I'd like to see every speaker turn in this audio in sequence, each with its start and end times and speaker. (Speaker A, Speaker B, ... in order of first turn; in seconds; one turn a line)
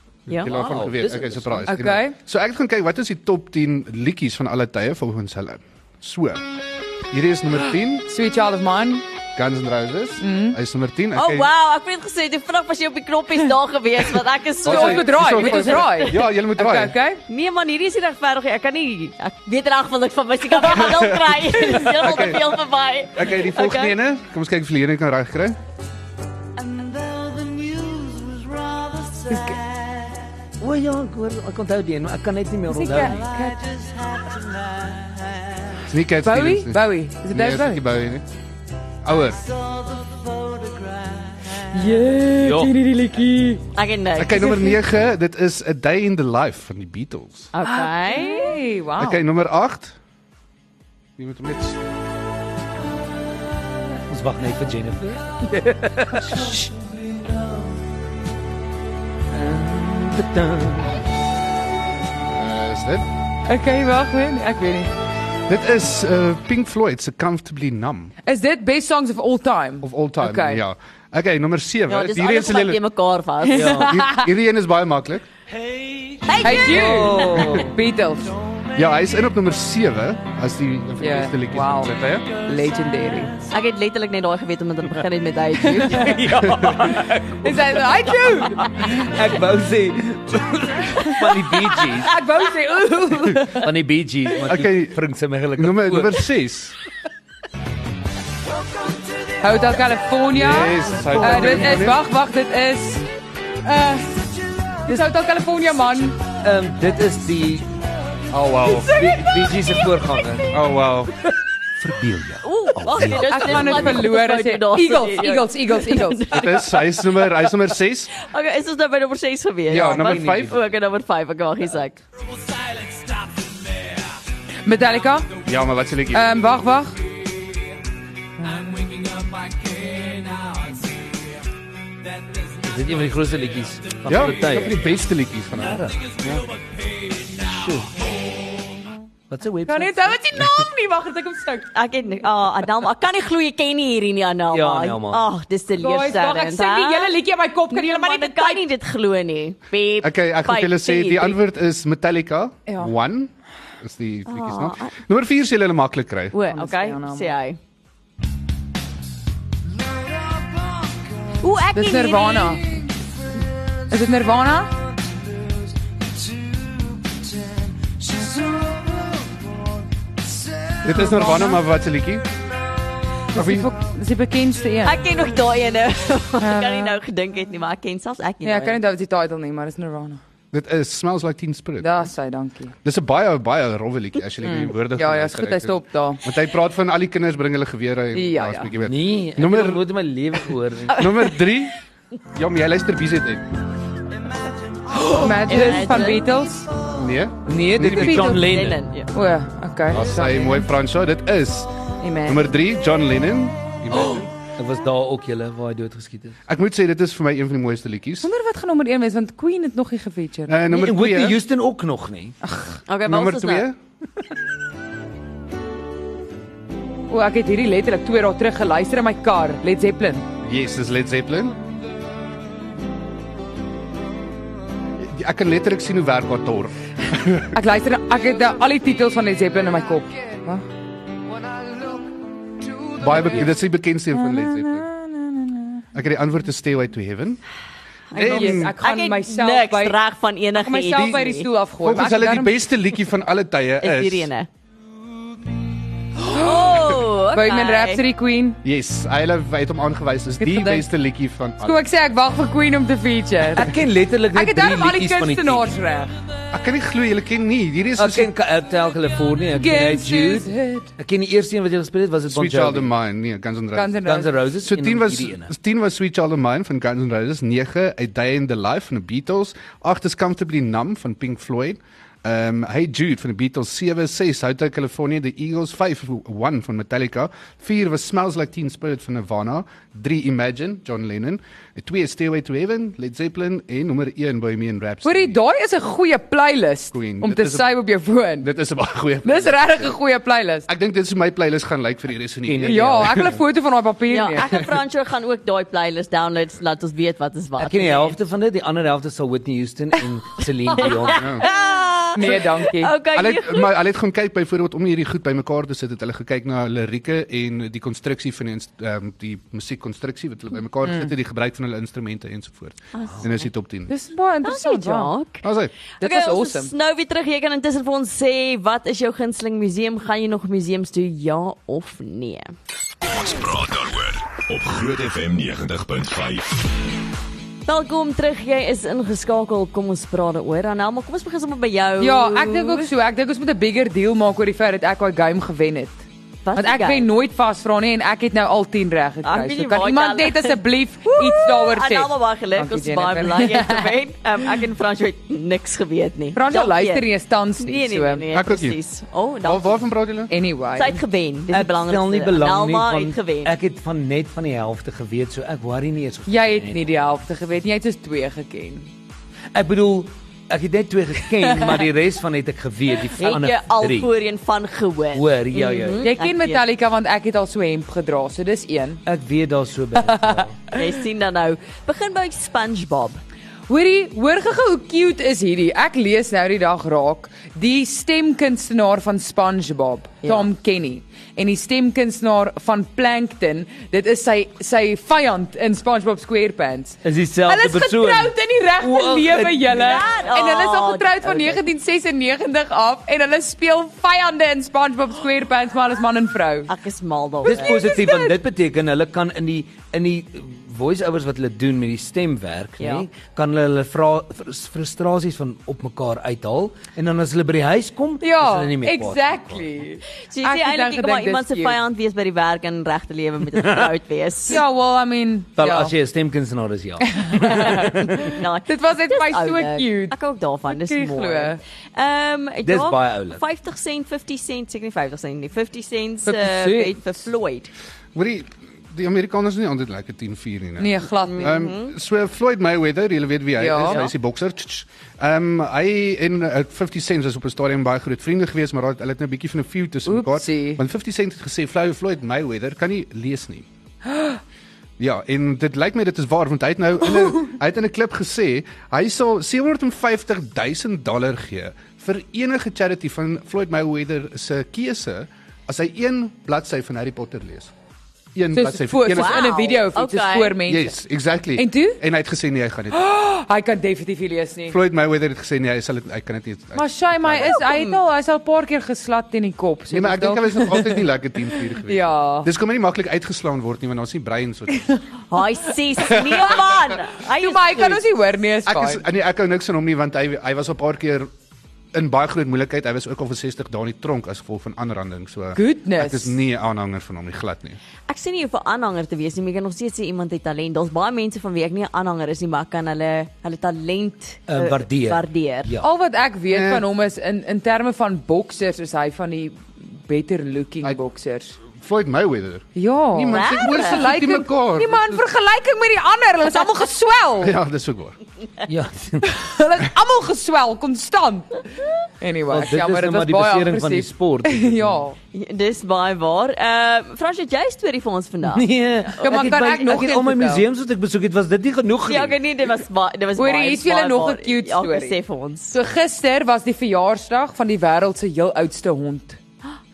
Speaker A: 0.3-6.5
Speaker B: 0.3-0.6
Speaker C: 0.5-1.7
Speaker D: 1.7-2.1
Speaker A: 7.1-8.1
Speaker D: 8.1-9.0
Speaker A: 9.3-11.5
Speaker D: 10.2-10.6
Speaker B: 11.1-16.2
Speaker A: 14.6-16.9
Speaker D: 14.6-17.2
Speaker B: 17.3-23.9
Speaker A: 20.8-21.1
Speaker A: 21.7-22.5
Speaker A: 23.1-25.6
Speaker C: 26.6-35.2
Speaker D: 29.3-29.6
Speaker D: 32.7-33.6
Speaker A: 35.9-38.2
Speaker D: 36.2-37.8
Speaker A: 39.0-39.4
Speaker C: 39.6-41.4
Speaker D: 41.7-43.6
Speaker C: 42.4-42.8
Speaker B: 43.7-44.8
Speaker A: 44.2-47.5
Speaker B: 47.5-48.6
Speaker D: 47.6-49.2
Speaker A: 49.0-50.0
Speaker A: 51.2-51.8
Speaker C: 54.1-57.6
Speaker C: 59.3-61.0
Speaker A: 62.3-63.0
Speaker D: 63.5-64.9
Speaker A: 65.5-68.1
Speaker D: 68.2-70.6
Speaker A: 69.8-72.8
Speaker B: 71.9-73.7
Speaker C: 73.5-74.0
Speaker D: 73.5-74.3
Speaker A: 73.8-75.3
Speaker C: 75.9-77.8
Speaker B: 76.2-77.4
Speaker D: 76.4-78.3
Speaker A: 78.7-82.3
Speaker D: 81.0-81.9
Speaker D: 82.5-83.3
Speaker B: 83.5-86.2
Speaker C: 85.7-87.8
Speaker D: 85.8-86.1
Speaker A: 86.4-86.8
Speaker D: 87.0-89.1
Speaker C: 88.5-92.2
Speaker D: 91.9-93.7
Speaker C: 93.5-96.2
Speaker A: 94.4-95.0
Speaker A: 95.5-96.7
Speaker D: 99.4-103.0
Speaker A: 100.3-102.0
Speaker C: 101.0-101.8
Speaker D: 103.6-104.2
Speaker D: 104.8-106.2
Speaker C: 106.4-107.7
Speaker A: 108.3-109.0
Speaker C: 108.7-110.6
Speaker D: 108.9-109.7
Speaker A: 110.5-111.1
Speaker C: 111.8-114.0
Speaker B: 112.4-117.0
Speaker D: 112.9-116.3
Speaker A: 116.3-118.1
Speaker B: 118.2-122.0
Speaker A: 119.7-120.6
Speaker C: 119.8-120.5
Speaker D: 124.6-125.3
Speaker A: 125.4-126.3
Speaker D: 126.1-126.9
Speaker C: 132.6-134.9
Speaker A: 134.1-135.8
Speaker C: 135.5-136.4
Speaker C: 137.4-138.0
Speaker C: 139.3-140.1
Speaker D: 139.7-141.7
Speaker B: 141.7-147.2
Speaker C: 144.5-145.2
Speaker D: 145.8-148.6
Speaker B: 147.7-151.4
Speaker A: 150.0-156.3
Speaker B: 154.3-154.9
Speaker B: 156.3-157.6
Speaker D: 156.5-157.3
Speaker B: 161.4-162.6
Speaker D: 161.7-162.8
Speaker D: 163.9-164.7
Speaker D: 170.8-171.6
Speaker A: 170.8-172.2
Speaker A: 173.3-173.7
Speaker D: 173.3-175.0
Speaker B: 174.8-178.8
Speaker D: 176.4-176.9
Speaker D: 178.4-180.2
Speaker A: 180.5-182.1
Speaker D: 181.8-182.7
Speaker A: 182.8-189.8
Speaker D: 184.4-186.2
Speaker D: 188.1-188.7
Speaker C: 188.8-191.1
Speaker A: 190.9-191.8
Speaker A: 192.3-193.4
Speaker D: 194.9-196.7
Speaker B: 195.4-196.3
Speaker A: 196.9-198.3
Speaker C: 197.4-198.8
Speaker D: 197.9-198.4
Speaker B: 198.3-199.1
Speaker D: 199.1-200.6
Speaker A: 199.9-204.3
Speaker D: 202.0-202.4
Speaker C: 204.1-206.4
Speaker A: 206.5-208.3
Speaker D: 208.2-210.6
Speaker A: 210.5-211.4
Speaker C: 210.7-212.3
Speaker D: 212.4-212.8
Speaker B: 212.9-213.7
Speaker A: 213.0-213.8
Speaker D: 217.1-220.3
Speaker A: 220.4-221.6
Speaker A: 225.0-227.5
Speaker D: 227.5-230.6
Speaker A: 233.0-234.9
Speaker D: 234.1-235.8
Speaker A: 235.9-237.4
Speaker B: 238.1-241.5
Speaker A: 238.1-238.8
Speaker D: 238.2-240.0
Speaker D: 240.6-242.6
Speaker A: 241.8-244.3
Speaker B: 243.8-244.5
Speaker B: 246.3-248.0
Speaker D: 246.3-248.6
Speaker A: 248.6-251.8
Speaker D: 250.4-250.8
Speaker D: 251.6-253.8
Speaker C: 253.5-255.7
Speaker D: 254.3-256.1
Speaker A: 256.5-258.3
Speaker C: 258.0-262.9
Speaker D: 259.5-260.9
Speaker A: 262.3-285.4
Speaker D: 263.7-264.3
Speaker C: 264.0-265.5
Speaker D: 285.0-288.5
Speaker A: 286.9-287.7
Speaker A: 288.4-290.0
Speaker D: 289.2-290.7
Speaker A: 290.7-293.4
Speaker C: 292.4-293.4
Speaker D: 292.6-294.5
Speaker B: 294.1-298.2
Speaker C: 297.6-301.3
Speaker B: 300.8-303.7
Speaker A: 301.1-301.4
Speaker D: 302.1-302.9
Speaker A: 303.1-313.9
Speaker D: 310.8-311.1
Speaker B: 312.9-313.5
Speaker D: 313.9-315.1
Speaker B: 314.4-315.4
Speaker A: 315.4-315.7
Speaker D: 316.0-316.7
Speaker B: 316.0-322.5
Speaker E: 323.0-326.7
Speaker B: 327.7-332.9
Speaker D: 332.0-336.0
Speaker B: 336.4-337.1
Speaker D: 336.6-343.9
Speaker B: 339.2-347.1
Speaker D: 346.3-348.2
Speaker B: 347.6-349.8
Speaker A: 348.3-348.8
Speaker A: 349.4-350.3
Speaker D: 350.3-351.0
Speaker B: 350.8-353.5
Speaker C: 351.5-357.1
Speaker D: 356.3-358.9
Speaker C: 359.5-364.1
Speaker D: 361.5-361.8
Speaker B: 363.2-366.6
Speaker C: 365.1-366.0
Speaker D: 366.0-369.0
Speaker C: 369.1-370.6
Speaker D: 370.0-370.4
Speaker B: 370.7-373.2
Speaker D: 373.7-396.7
Speaker C: 387.0-390.0
Speaker B: 389.7-391.1
Speaker C: 391.2-391.6
Speaker B: 396.7-398.0
Speaker D: 397.4-398.4
Speaker C: 397.4-409.8
Speaker B: 402.8-403.1
Speaker D: 408.2-411.8
Speaker B: 410.2-414.6
Speaker C: 413.5-413.9
Speaker D: 414.5-415.9
Speaker C: 415.6-418.3
Speaker D: 417.1-420.1
Speaker B: 418.3-427.7
Speaker D: 420.7-421.6
Speaker C: 422.6-423.4
Speaker D: 426.2-427.0
Speaker A: 428.1-443.7
Speaker D: 430.8-431.6
Speaker B: 431.2-431.9
Speaker D: 433.6-434.0
Speaker B: 433.8-434.1
Speaker D: 440.1-440.8
Speaker A: 445.0-457.7
Speaker A: 458.3-459.8
Speaker D: 458.5-460.9
Speaker B: 459.1-460.6
Speaker A: 460.6-463.1
Speaker D: 461.6-462.0
Speaker D: 462.9-464.8
Speaker A: 464.7-467.6
Speaker D: 466.7-471.0
Speaker B: 467.6-468.0
Speaker A: 469.9-475.0
Speaker D: 471.9-472.5
Speaker B: 475.3-478.1
Speaker A: 476.2-476.6
Speaker D: 476.2-476.6
Speaker D: 477.2-479.0
Speaker A: 478.6-481.3
Speaker A: 481.9-487.8
Speaker D: 485.5-486.3
Speaker B: 488.1-495.7
Speaker C: 494.5-495.9
Speaker D: 495.8-501.6
Speaker A: 496.5-496.9
Speaker A: 501.8-505.2
Speaker D: 502.8-507.6
Speaker B: 503.3-504.0
Speaker A: 507.4-508.2
Speaker C: 508.6-509.5
Speaker D: 509.3-511.6
Speaker D: 512.2-515.2
Speaker C: 512.5-515.0
Speaker B: 515.3-519.4
Speaker C: 518.5-522.4
Speaker D: 519.2-520.6
Speaker B: 522.0-525.8
Speaker D: 523.4-525.2
Speaker D: 525.7-529.4